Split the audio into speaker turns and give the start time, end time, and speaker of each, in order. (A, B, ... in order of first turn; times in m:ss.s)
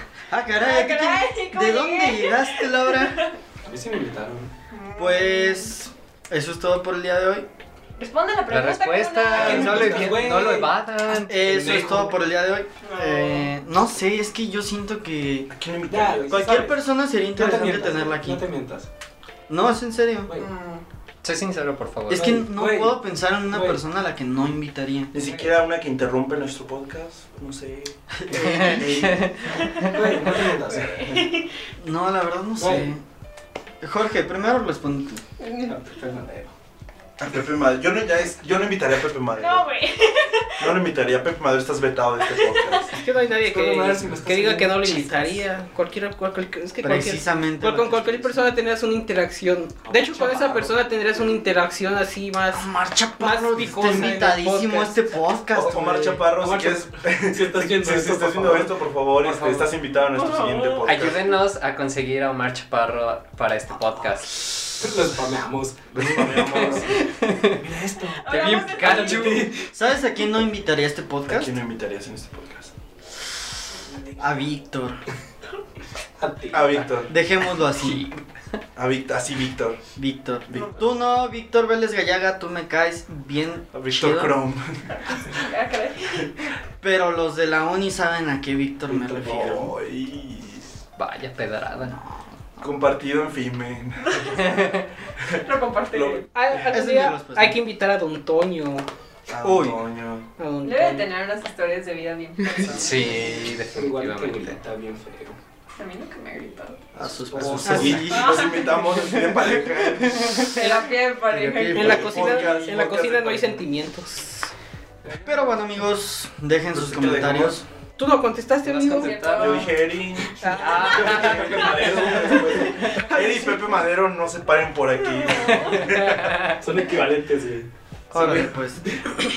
0:00.3-0:03.2 A
0:00.5-0:03.3 B
0:03.6-0:04.5 C
0:04.7-0:05.7 B
0:05.0-0:07.5 A
0:08.0-0:09.9 B
0:08.5-0:11.9 D
0:09.3-0:10.7 C
0:09.4-0:10.0 E
0:09.4-0:10.4 A
0:11.2-0:15.5 A
0:11.3-0:12.1 C
0:12.8-0:13.5 B
0:15.5-0:16.7 E
0:15.9-0:16.7 C
0:16.3-0:18.4 A
0:17.3-0:18.9 C
0:19.5-0:20.3 A
0:20.3-0:20.8 B
0:21.2-0:22.4 D
0:22.1-0:25.1 A
0:22.1-0:23.8 C
0:25.1-0:29.5 E
0:25.2-0:25.5 C
0:28.1-0:29.2 A
0:28.4-0:29.3 D
0:29.4-0:31.5 B
0:29.7-0:31.0 C
0:31.0-0:31.3 E
0:31.8-0:33.0 A
0:32.6-0:32.9 C
0:33.8-0:35.2 A
0:35.4-0:35.7 B
0:35.6-0:36.5 C
0:37.2-0:39.7 E
0:39.3-0:40.8 B
0:40.6-0:43.0 E
0:42.3-0:43.0 B
0:42.9-0:55.0 F
0:43.4-0:45.4 C
0:46.8-0:48.5 A
0:49.9-0:50.7 E
0:50.1-0:50.6 C
0:52.5-0:56.2 A
0:55.5-0:58.8 C
0:55.6-1:01.4 E
0:59.2-0:59.7 D
1:00.1-1:01.1 B
1:00.8-1:04.5 D
1:04.4-1:06.9 C
1:05.9-1:07.0 E
1:06.2-1:07.5 D
1:07.4-1:09.7 C
1:08.2-1:09.5 B
1:08.3-1:09.5 D
1:09.6-1:11.5 A
1:11.3-1:12.7 E
1:14.2-1:15.0 A
1:16.2-1:16.8 C
1:16.5-1:17.1 E
1:17.1-1:18.2 A
1:17.7-1:18.2 D
1:18.8-1:19.8 E
1:20.0-1:24.4 A
1:20.5-1:20.8 E
1:23.7-1:24.9 E
1:25.3-1:26.3 B
1:26.8-1:29.7 A
1:28.9-1:29.7 C
1:29.2-1:30.6 E
1:31.0-1:32.0 D
1:31.9-1:32.2 A
1:32.6-1:34.4 E
1:34.0-1:34.8 B
1:35.2-1:36.2 E
1:35.3-1:36.2 B
1:36.3-1:38.9 F
1:36.6-1:37.6 A
1:39.3-1:40.2 E
1:39.4-1:39.8 A
1:40.4-1:41.1 F
1:40.6-1:43.4 B
1:42.6-1:43.5 E
1:42.7-1:44.6 D
1:42.8-1:45.4 C
1:45.8-1:46.8 B
1:47.0-1:48.6 A
1:47.0-1:50.6 E
1:47.1-1:48.2 C
1:47.7-1:48.0 F
1:48.1-1:48.7 B
1:50.5-1:52.6 B
1:51.3-1:52.3 A
1:51.7-1:54.5 F
1:51.8-1:53.6 E
1:55.2-1:57.6 A
1:56.7-1:57.6 E
1:58.0-1:59.2 F
1:58.6-1:59.6 D
1:58.9-1:59.8 B
1:59.3-2:06.4 E
2:00.4-2:01.5 F
2:00.5-2:01.4 D
2:00.6-2:03.0 C
2:03.0-2:03.6 F
2:05.0-2:06.0 B
2:05.8-2:06.6 D
2:06.5-2:09.2 C
2:08.1-2:08.8 A
2:08.1-2:08.4 E